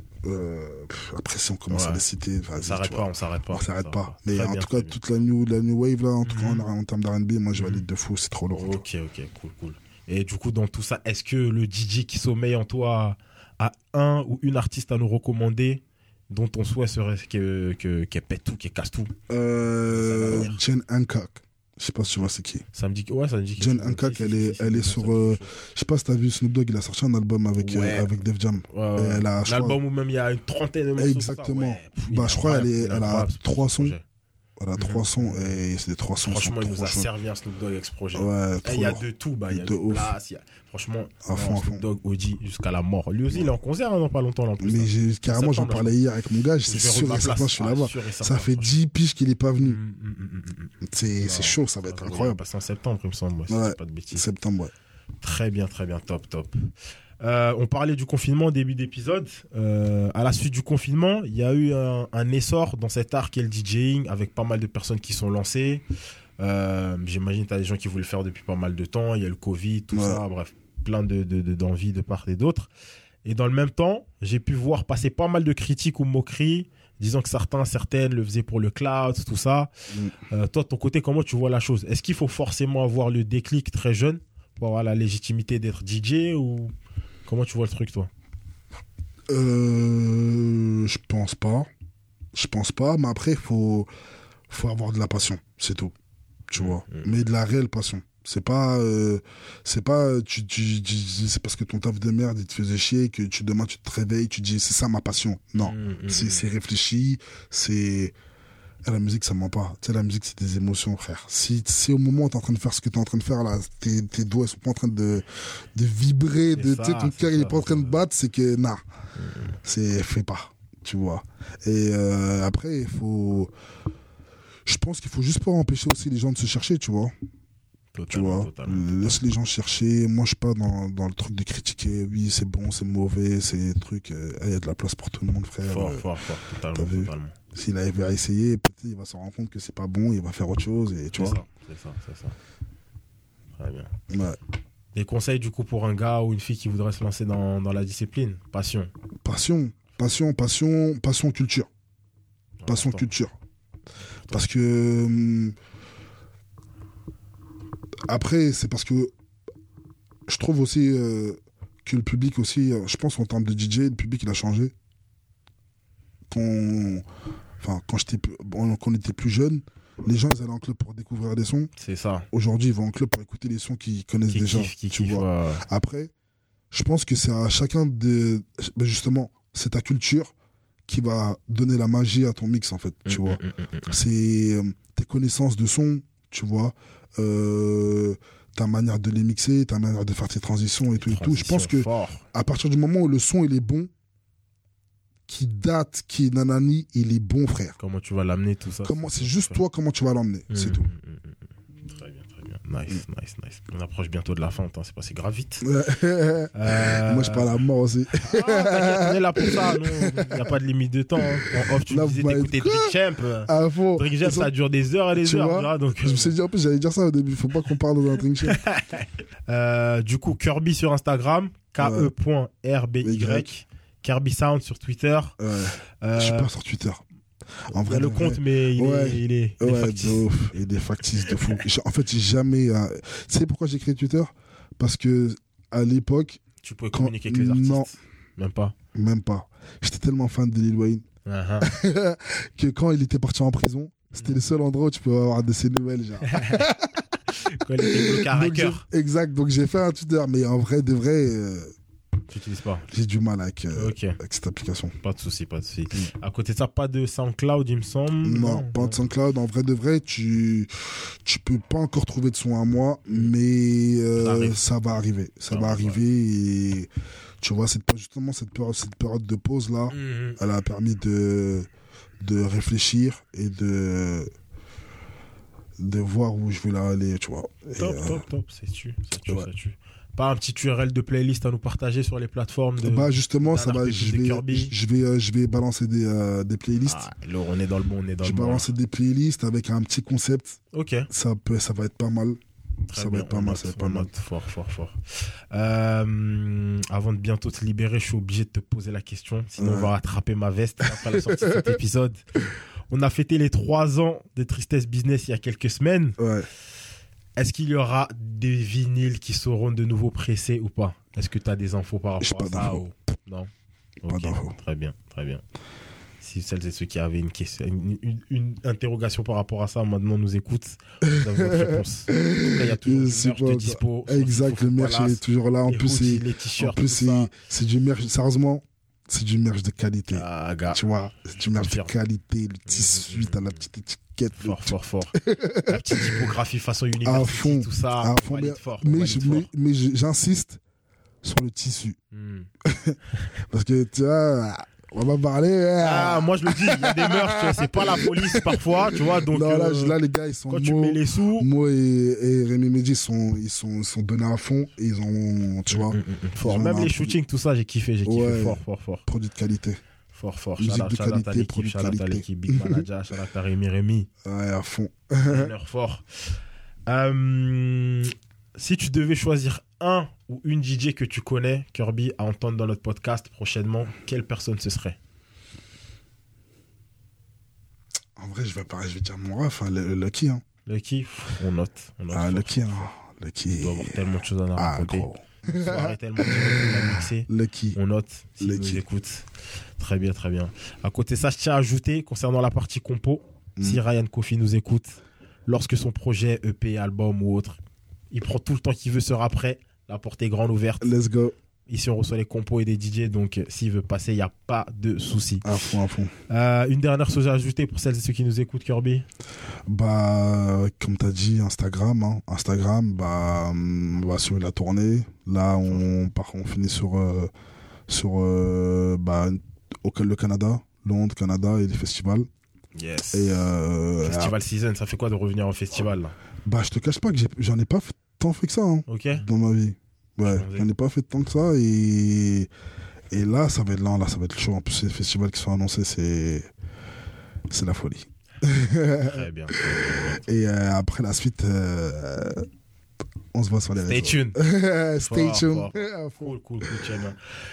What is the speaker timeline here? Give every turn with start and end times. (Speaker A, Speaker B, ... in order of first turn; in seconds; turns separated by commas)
Speaker A: 0.2-8.8, Speaker B: 1.7-2.0, Speaker B: 2.6-5.0, Speaker B: 6.2-6.7, Speaker B: 7.5-7.8, Speaker B: 8.5-19.1, Speaker A: 19.3-22.6, Speaker B: 19.9-20.6, Speaker B: 22.7-25.5, Speaker A: 23.6-29.8, Speaker B: 27.6-28.1, Speaker B: 28.7-34.0, Speaker A: 30.9-34.0, Speaker A: 34.6-37.1, Speaker B: 34.8-35.6, Speaker B: 36.2-45.9, Speaker A: 38.1-40.1, Speaker A: 41.2-41.8, Speaker A: 44.6-49.8, Speaker B: 46.6-48.8, Speaker B: 49.6-54.2, Speaker A: 50.8-52.4, Speaker A: 53.5-54.7, Speaker B: 55.2-56.7, Speaker B: 57.2-65.8, Speaker B: 66.4-72.7, Speaker A: 69.9-70.2, Speaker B: 73.2-79.7, Speaker B: 80.2-86.7, Speaker B: 87.2-88.1, Speaker A: 89.3-91.7, Speaker A: 92.3-93.9, Speaker A: 94.5-95.9, Speaker A: 96.5-108.1, Speaker B: 96.5-97.1, Speaker B: 105.6-106.4, Speaker A: 108.8-118.8, Speaker B: 116.5-118.0, Speaker B: 119.2-119.5, Speaker A: 119.6-123.5, Speaker A: 124.7-127.1, Speaker B: 127.9-129.1, Speaker A: 128.1-136.1, Speaker B: 135.6-138.1, Speaker A: 136.7-141.4, Speaker B: 141.2-142.3, Speaker B: 143.6-143.9, Speaker A: 144.1-144.4, Speaker B: 144.9-148.9, Speaker A: 149.2-151.7, Speaker B: 152.6-153.1, Speaker A: 152.7-153.3, Speaker A: 154.3-155.6, Speaker A: 158.1-159.1, Speaker A: 160.3-164.7, Speaker A: 166.3-167.1, Speaker A: 167.6-171.7, Speaker B: 171.8-172.3, Speaker A: 172.3-176.1, Speaker B: 174.3-175.6, Speaker A: 176.7-180.3, Speaker A: 180.8-193.9, Speaker B: 183.1-184.0, Speaker B: 191.0-192.2, Speaker A: 195.3-197.8, Speaker B: 197.8-199.6, Speaker A: 198.8-200.9, Speaker B: 200.5-205.6, Speaker A: 205.6-210.4, Speaker B: 206.5-207.5, Speaker B: 208.2-216.3, Speaker A: 211.8-214.5, Speaker A: 215.1-218.6, Speaker B: 218.4-225.4, Speaker A: 221.8-222.1, Speaker A: 223.0-223.5, Speaker A: 225.4-227.0, Speaker B: 226.0-226.5, Speaker A: 227.7-236.4, Speaker B: 227.7-230.3, Speaker B: 231.3-231.5, Speaker B: 236.6-238.8, Speaker A: 236.9-237.9, Speaker A: 238.9-241.0, Speaker B: 241.2-241.7, Speaker A: 241.6-246.9, Speaker B: 246.2-246.7, Speaker B: 247.3-248.8, Speaker A: 247.8-251.7, Speaker B: 252.3-252.8, Speaker A: 252.9-254.9, Speaker B: 253.7-254.2, Speaker B: 255.0-259.0, Speaker A: 258.2-266.9, Speaker B: 263.1-263.3, Speaker B: 264.1-264.6, Speaker B: 265.5-266.0, Speaker A: 267.4-271.7, Speaker B: 269.9-270.4, Speaker A: 272.2-274.3, Speaker A: 275.8-278.2, Speaker B: 277.8-284.7, Speaker A: 282.8-287.1, Speaker B: 286.8-288.7, Speaker A: 288.2-290.6, Speaker B: 290.7-291.1, Speaker A: 291.1-292.4, Speaker B: 292.9-295.0, Speaker A: 292.9-294.1, Speaker B: 295.5-302.2, Speaker A: 299.6-299.9, Speaker A: 300.8-301.8, Speaker B: 302.9-306.2, Speaker A: 306.2-306.5, Speaker B: 307.4-313.5, Speaker A: 312.2-312.9, Speaker B: 314.0-315.4, Speaker A: 314.1-314.5, Speaker B: 316.2-327.3, Speaker A: 321.1-336.3, Speaker B: 330.1-330.8, Speaker B: 331.3-331.9, Speaker B: 332.7-333.6, Speaker B: 334.3-339.5, Speaker A: 337.0-340.6, Speaker A: 341.2-342.0, Speaker B: 342.1-342.5, Speaker A: 342.6-357.2, Speaker B: 345.8-350.0, Speaker B: 350.5-351.5, Speaker B: 355.7-359.1, Speaker A: 358.1-359.8, Speaker B: 360.1-364.1, Speaker A: 360.6-362.9, Speaker A: 364.2-365.5, Speaker B: 365.3-366.3, Speaker B: 366.9-375.0, Speaker A: 378.1-380.4, Speaker B: 380.6-382.9, Speaker A: 382.1-384.0, Speaker B: 383.6-397.6, Speaker A: 384.6-387.8, Speaker A: 388.4-388.8, Speaker B: 398.1-400.9, Speaker A: 400.8-401.3, Speaker B: 401.7-405.5, Speaker A: 405.4-406.1, Speaker B: 406.3-409.0, Speaker A: 409.7-417.3, Speaker A: 417.9-422.3, Speaker B: 422.7-423.5, Speaker A: 423.1-424.3, Speaker B: 424.0-426.1, Speaker A: 426.4-432.5, Speaker B: 428.9-429.2, Speaker B: 430.2-430.7, Speaker A: 433.1-436.5, Speaker A: 437.5-442.5, Speaker B: 439.0-440.2, Speaker A: 443.3-446.7, Speaker B: 443.8-444.4, Speaker B: 445.0-447.2